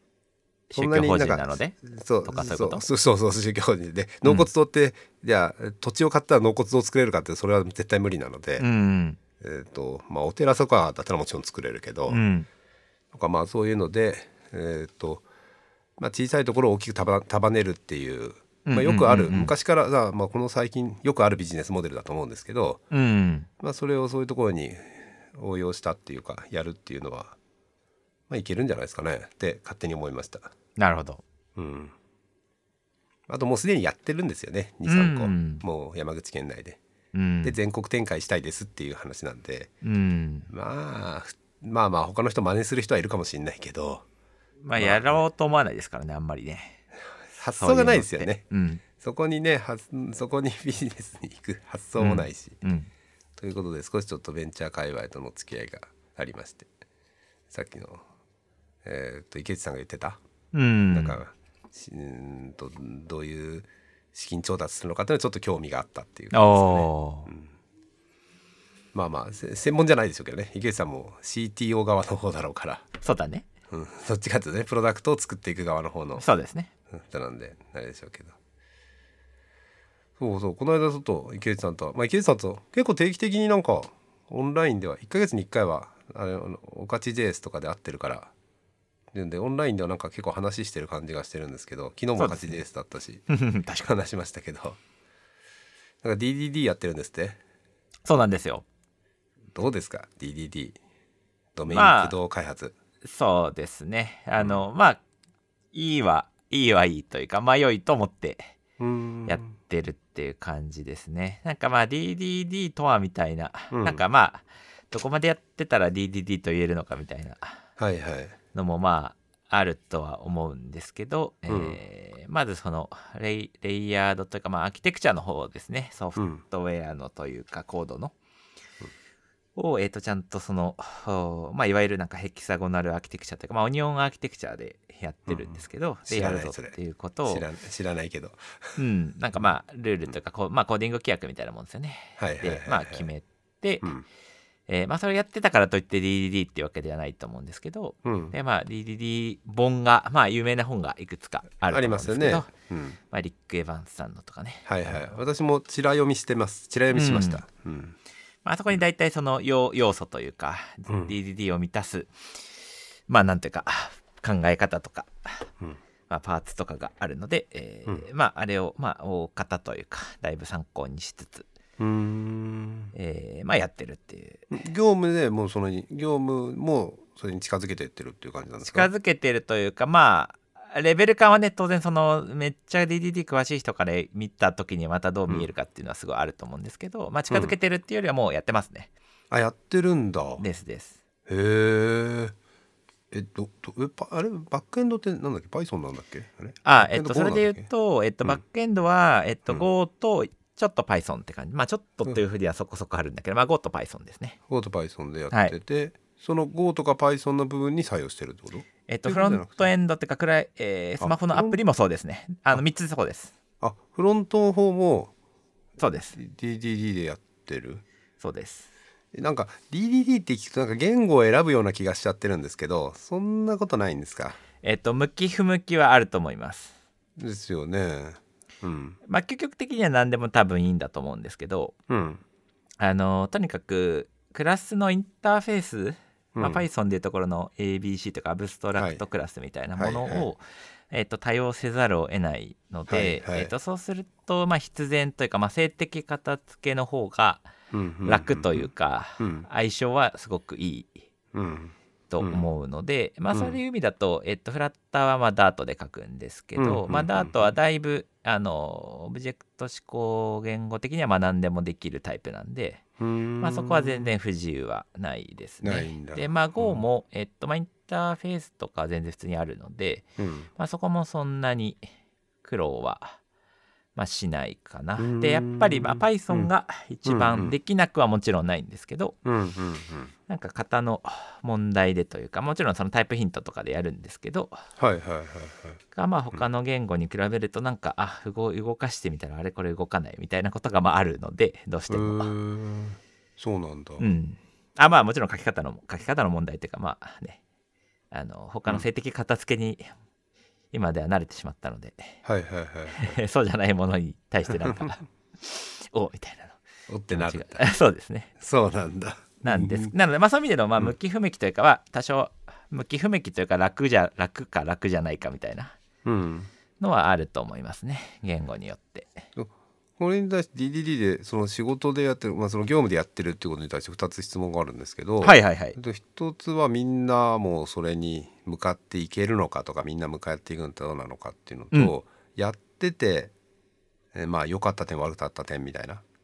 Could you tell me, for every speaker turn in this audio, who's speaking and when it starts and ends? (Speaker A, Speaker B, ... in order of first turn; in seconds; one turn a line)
Speaker A: 0.7-2.9
Speaker B: 0.7-8.7
Speaker A: 8.6-9.2
Speaker B: 9.4-12.2
Speaker A: 12.1-12.5
Speaker B: 13.1-15.2
Speaker B: 16.0-22.8
Speaker A: 18.7-19.5
Speaker A: 22.9-23.5
Speaker B: 23.6-27.4
Speaker B: 28.3-30.5
Speaker A: 30.8-31.2
Speaker B: 31.6-31.9
Speaker B: 33.3-36.8
Speaker A: 34.9-35.6
Speaker A: 37.1-37.6
Speaker B: 37.4-39.7
Speaker A: 39.8-40.5
Speaker B: 40.5-44.0
Speaker A: 44.6-46.8
Speaker B: 44.8-45.2
Speaker B: 47.3-48.4
Speaker A: 47.6-48.8
Speaker B: 49.0-52.6
Speaker A: 52.0-52.9
Speaker B: 53.4-56.7
Speaker B: 57.5-58.0
Speaker B: 58.8-60.2
Speaker A: 60.5-61.2
Speaker B: 60.9-67.5
Speaker A: 66.3-67.3
Speaker B: 68.9-72.9
Speaker A: 73.0-73.5
Speaker B: 73.7-76.3
Speaker A: 76.2-76.7
Speaker B: 76.9-78.3
Speaker B: 80.2-88.3
Speaker B: 89.1-93.2
Speaker A: 92.2-92.6
Speaker A: 93.3-93.9
Speaker B: 93.8-94.8
Speaker B: 96.0-97.4
Speaker A: 98.1-98.7
Speaker B: 99.5-100.8
Speaker B: 101.5-102.8
Speaker A: 101.7-102.2
Speaker A: 103.0-105.0
Speaker B: 104.4-104.6
Speaker A: 105.7-108.5
Speaker B: 108.8-109.6
Speaker A: 109.3-117.6
Speaker B: 113.7-114.0
Speaker B: 117.8-118.4
Speaker A: 118.5-128.2
Speaker B: 121.5-121.8
Speaker B: 126.2-126.4
Speaker A: 129.6-137.4
Speaker B: 135.3-138.7
Speaker A: 138.8-143.9
Speaker B: 142.2-143.1
Speaker A: 144.7-152.5
Speaker B: 148.0-148.3
Speaker B: 151.7-153.0
Speaker A: 153.1-155.2
Speaker B: 154.7-158.0
Speaker A: 156.9-157.4
Speaker A: 158.4-162.1
Speaker B: 160.9-161.1
Speaker A: 163.1-165.5
Speaker A: 166.1-171.5
Speaker B: 171.8-172.9
Speaker A: 172.9-174.5
Speaker B: 174.5-178.9
Speaker A: 178.6-188.9
Speaker B: 187.3-187.6
Speaker B: 189.3-190.4
Speaker A: 190.4-191.0
Speaker B: 191.3-192.3
Speaker B: 193.1-197.7
Speaker A: 196.6-204.4
Speaker B: 204.5-209.7
Speaker A: 208.9-213.3
Speaker B: 211.0-211.6
Speaker B: 213.6-215.1
Speaker A: 215.8-216.2
Speaker B: 216.2-217.8
Speaker A: 218.2-218.7
Speaker B: 219.1-224.4
Speaker A: 224.6-226.8
Speaker B: 227.2-229.0
Speaker A: 229.1-231.8
Speaker B: 231.9-232.2
Speaker A: 232.8-247.5
Speaker B: 236.3-236.7
Speaker B: 238.7-239.0
Speaker B: 239.8-240.3
Speaker B: 242.9-243.5
Speaker B: 247.7-249.5
Speaker A: 248.1-251.0
Speaker B: 251.3-252.5
Speaker A: 252.1-262.8
Speaker B: 253.3-253.6
Speaker B: 256.6-257.5
Speaker B: 263.0-264.1
Speaker A: 263.4-271.9
Speaker B: 265.6-266.8
Speaker B: 270.2-270.5
Speaker A: 272.4-273.2
Speaker A: 274.0-279.2
Speaker B: 275.0-276.5
Speaker B: 277.1-277.6
Speaker B: 279.2-280.1
Speaker A: 280.3-284.6
Speaker B: 284.8-285.8
Speaker A: 285.9-292.3
Speaker B: 291.9-294.1
Speaker A: 294.0-297.4
Speaker A: 298.1-299.9
Speaker A: 300.7-302.2
Speaker B: 302.2-303.2
Speaker A: 303.0-306.6
Speaker B: 304.6-305.0
Speaker B: 306.9-307.7
Speaker A: 307.1-308.3
Speaker B: 308.4-309.9
Speaker A: 309.4-315.7
Speaker B: 316.1-316.5
Speaker A: 316.8-319.2
Speaker B: 319.4-333.3
Speaker A: 325.2-325.8
Speaker B: 334.1-336.0